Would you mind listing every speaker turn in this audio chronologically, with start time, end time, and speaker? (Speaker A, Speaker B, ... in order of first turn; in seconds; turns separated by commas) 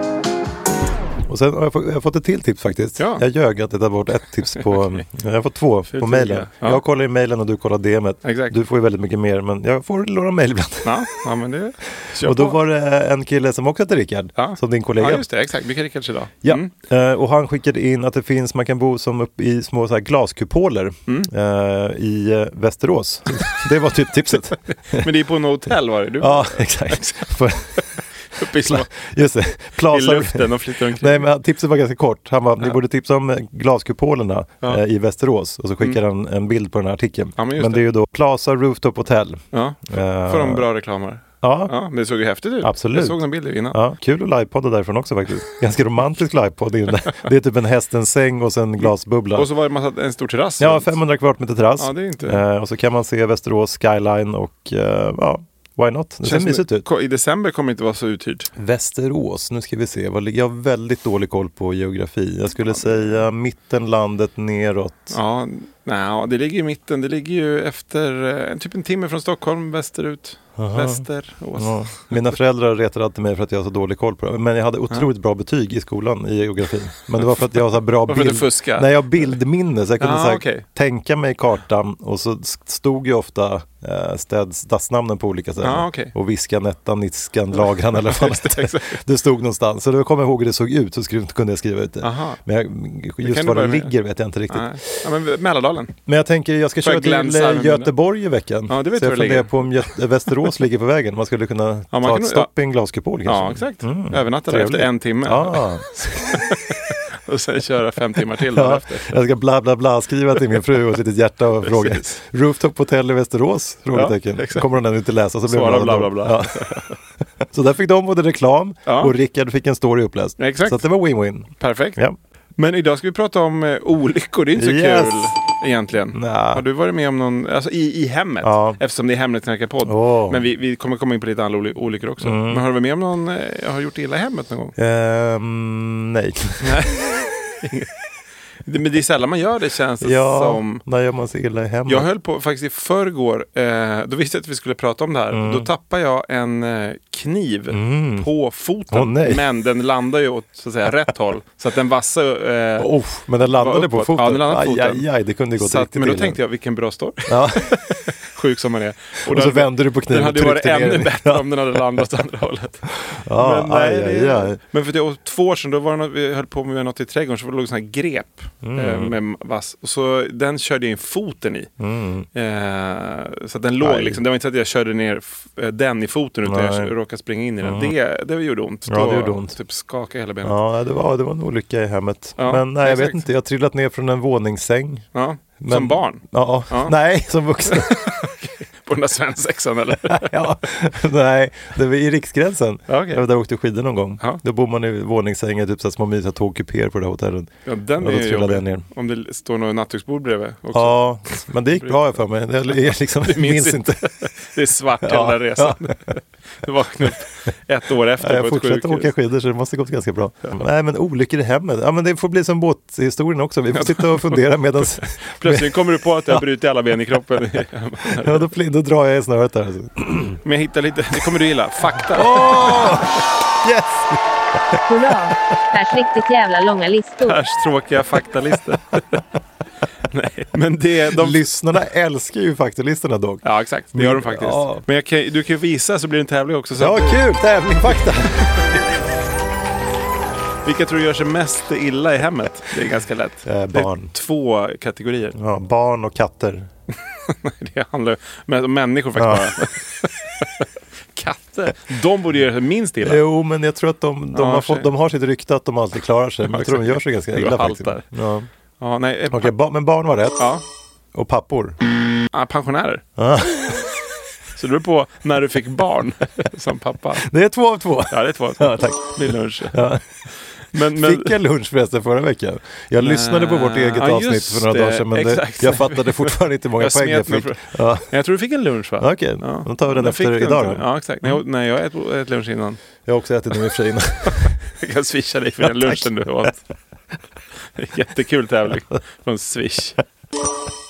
Speaker A: 1.3-11.2, Speaker B: 3.0-3.2, Speaker B: 4.5-5.0, Speaker B: 5.9-6.8, Speaker B: 8.2-8.6, Speaker B: 10.8-12.6, Speaker A: 12.1-15.2, Speaker B: 14.4-16.7, Speaker A: 16.4-25.1, Speaker B: 24.9-27.8, Speaker A: 26.2-40.7, Speaker B: 28.4-29.0, Speaker B: 29.9-31.3, Speaker B: 37.4-37.9, Speaker B: 39.5-43.8, Speaker A: 41.4-41.7, Speaker A: 42.6-49.5, Speaker B: 48.8-51.0, Speaker A: 50.6-56.9, Speaker B: 51.8-52.4, Speaker B: 56.2-58.5, Speaker A: 58.6-65.2, Speaker B: 65.1-72.3, Speaker A: 70.6-95.0, Speaker B: 78.1-79.3, Speaker B: 80.0-80.7, Speaker B: 85.6-86.1, Speaker B: 87.8-89.0, Speaker B: 92.0-92.4, Speaker B: 93.2-94.0, Speaker B: 94.5-96.0, Speaker A: 96.1-106.4, Speaker B: 96.8-97.9, Speaker B: 98.7-100.5, Speaker B: 101.9-102.5, Speaker B: 103.2-109.2, Speaker A: 108.4-116.8, Speaker B: 111.6-112.2, Speaker B: 113.9-114.7, Speaker B: 115.5-117.0, Speaker A: 117.4-122.2, Speaker B: 118.9-119.1, Speaker B: 120.4-120.8, Speaker B: 121.6-122.0, Speaker B: 122.6-134.8, Speaker A: 124.6-125.3, Speaker A: 126.1-126.7, Speaker A: 128.4-128.8, Speaker A: 129.8-130.4, Speaker A: 132.2-132.7, Speaker A: 134.8-136.9, Speaker B: 136.6-137.9, Speaker B: 138.6-140.8, Speaker A: 140.0-142.1, Speaker B: 141.9-152.9, Speaker A: 145.3-145.7, Speaker A: 147.7-148.3, Speaker A: 148.9-149.4, Speaker A: 152.8-156.4, Speaker B: 153.5-171.7, Speaker A: 157.2-157.8, Speaker A: 159.2-162.1, Speaker A: 162.9-164.6, Speaker A: 168.6-169.2, Speaker A: 171.8-172.3, Speaker B: 172.3-180.6, Speaker A: 173.8-174.2, Speaker A: 176.4-176.9, Speaker A: 177.6-177.9, Speaker A: 178.9-179.6, Speaker A: 180.4-185.1, Speaker B: 182.4-183.2, Speaker B: 185.1-186.9, Speaker A: 185.6-188.1, Speaker B: 187.7-190.4, Speaker A: 190.1-198.8, Speaker B: 192.9-193.2, Speaker B: 197.7-202.2, Speaker A: 200.7-204.1, Speaker B: 202.7-209.1, Speaker A: 205.0-206.0, Speaker A: 208.2-216.4, Speaker B: 213.7-218.5, Speaker A: 218.1-220.4, Speaker B: 220.4-223.1, Speaker A: 222.1-224.8, Speaker C: 224.9-227.4, Speaker B: 227.2-229.2, Speaker B: 230.1-231.4, Speaker A: 231.1-234.8, Speaker B: 233.4-237.3, Speaker A: 236.8-238.7, Speaker B: 237.8-238.8, Speaker B: 240.6-245.4, Speaker A: 243.4-244.1, Speaker A: 245.3-246.7, Speaker B: 247.1-253.2, Speaker A: 249.2-249.5, Speaker A: 253.0-258.5, Speaker B: 254.3-254.9, Speaker B: 256.4-258.1, Speaker B: 258.8-259.6, Speaker A: 259.3-260.5, Speaker B: 260.4-260.6, Speaker A: 261.1-261.8, Speaker B: 262.3-263.0, Speaker A: 263.2-263.8, Speaker B: 264.6-267.3, Speaker A: 267.2-270.0, Speaker B: 268.1-269.9, Speaker B: 270.7-271.4, Speaker A: 270.7-278.1, Speaker B: 273.0-282.8, Speaker A: 279.0-281.4, Speaker A: 283.1-284.6, Speaker B: 284.2-286.6, Speaker A: 285.7-286.1, Speaker B: 287.8-290.0